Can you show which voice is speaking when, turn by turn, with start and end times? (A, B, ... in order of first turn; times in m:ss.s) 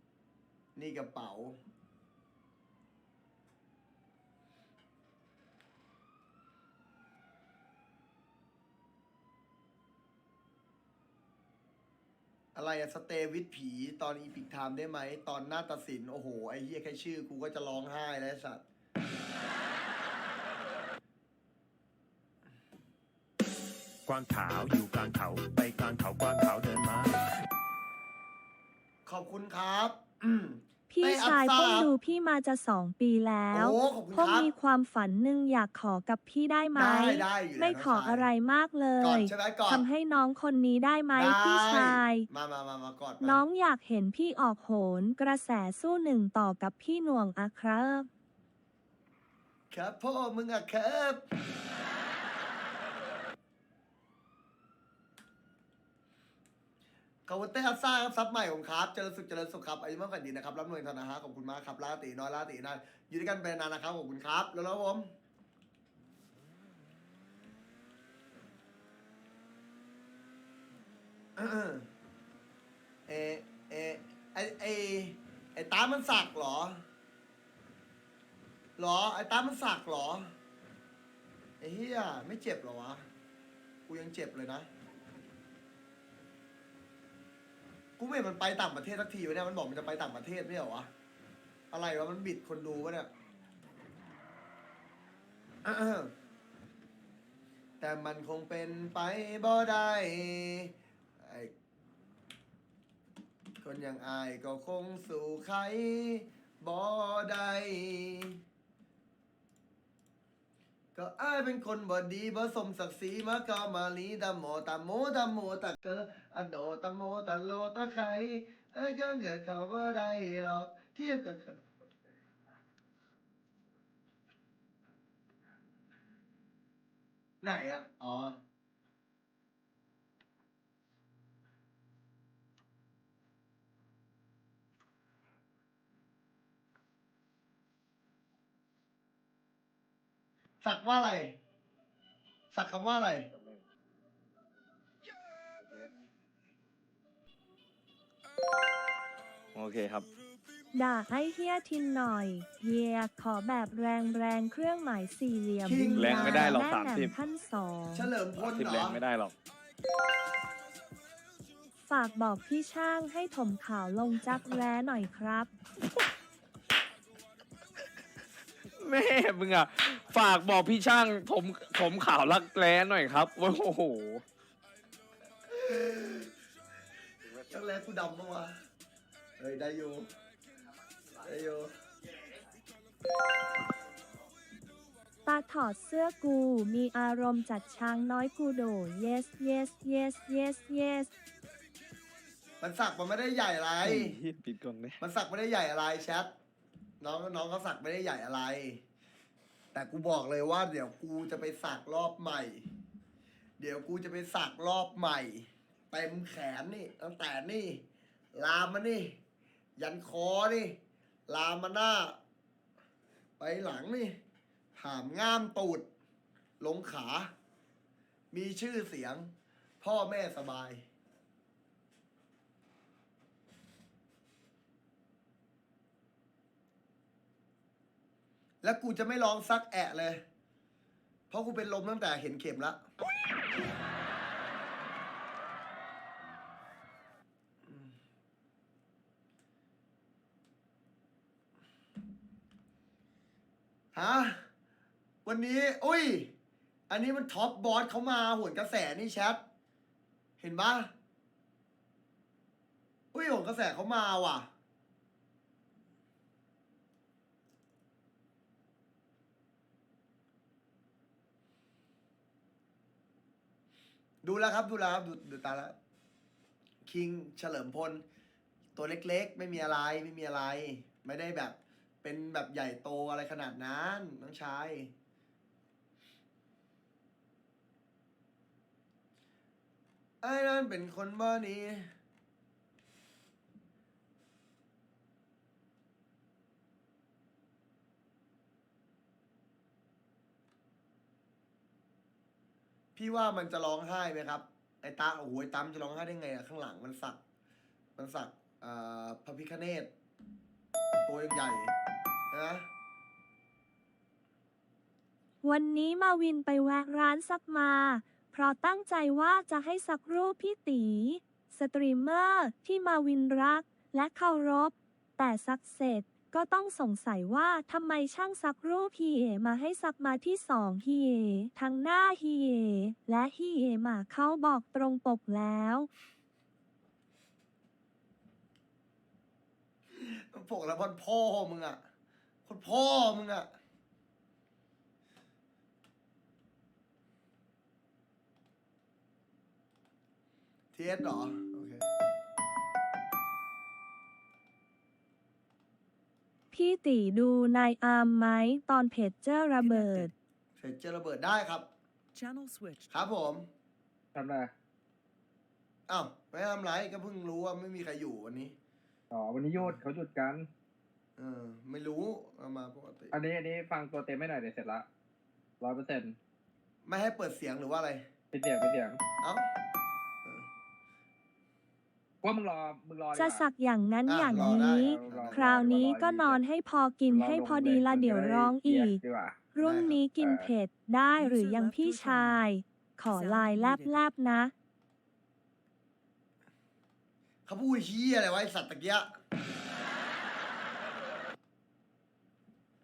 0:00.8-0:01.6 A
0:12.6-0:18.6 A
0:24.1-0:27.2 B
0:29.1-0:31.9 A
0:30.9-0:42.3 C
0:33.5-0:34.5 A
0:36.8-0:38.3 A
0:39.0-0:39.8 A
0:41.2-0:43.4 A
0:43.2-0:48.1 C
0:49.7-0:51.2 A
0:57.3-1:05.1 A
1:11.4-1:11.9 A
1:13.1-1:16.8 A
1:18.8-1:20.3 A
1:21.6-1:23.1 A
1:23.9-1:24.7 A
1:28.0-1:30.9 A
1:31.7-1:33.1 A
1:35.6-1:36.1 A
1:37.8-1:41.5 A
1:43.6-1:48.4 A
1:51.0-2:01.6 A
2:07.4-2:08.4 A
2:20.6-2:21.4 A
2:22.5-2:23.3 A
2:29.5-2:30.1 D
2:30.7-2:38.1 C
2:35.7-2:36.6 A
2:36.0-2:37.2 D
2:37.9-2:39.0 A
2:38.4-2:39.4 D
2:41.9-2:45.5 C
2:48.8-2:54.2 D
2:55.5-2:56.3 A
2:57.4-2:58.6 A
2:59.4-3:00.1 A
3:01.1-3:01.7 A
3:05.2-3:11.1 C
3:12.6-3:14.2 A
3:13.9-3:15.0 D
3:15.0-3:16.3 A
3:17.0-3:18.8 A
3:19.7-3:22.6 A
3:23.6-3:27.8 A
3:28.4-3:29.2 A
3:29.8-3:30.8 A
3:31.3-3:32.2 A
3:33.4-3:34.2 A
3:34.8-3:35.8 A
3:36.6-3:37.3 A
3:38.3-3:39.3 A
3:39.8-3:40.8 A
3:48.6-3:50.2 A
3:51.3-3:52.8 A
4:03.9-4:04.4 A
4:05.2-4:06.3 A
4:06.9-4:09.4 A
4:10.4-4:10.9 A
4:13.1-4:14.5 A
4:24.2-4:25.7 A
4:26.8-4:28.0 A
4:28.8-4:34.9 A
4:40.2-4:41.9 A
4:53.0-4:57.2 A
4:58.0-4:59.9 A
5:01.1-5:01.7 A
5:02.3-5:02.7 A
5:05.4-5:25.9 C
5:30.0-5:31.8 A
5:32.4-5:33.5 A
5:40.7-5:41.8 A
5:46.5-5:50.1 C
5:49.6-5:50.1 B
5:50.6-5:51.7 A
5:52.2-5:52.9 B
5:52.9-5:53.5 A
5:54.1-5:54.5 E
5:55.9-5:58.6 A
5:59.1-6:00.5 E
5:59.6-5:59.8 A
6:01.2-6:03.1 A
6:03.1-6:04.9 E
6:05.6-6:06.2 E
6:06.8-6:08.0 A
6:08.3-6:09.0 E
6:09.2-6:09.5 A
6:12.2-6:13.4 E
6:13.1-6:19.0 C
6:14.1-6:15.9 A
6:14.3-6:16.4 E
6:17.1-6:19.4 E
6:19.5-6:24.5 C
6:19.6-6:20.0 A
6:20.2-6:20.5 E
6:21.2-6:22.5 B
6:23.1-6:24.0 B
6:27.5-6:29.1 A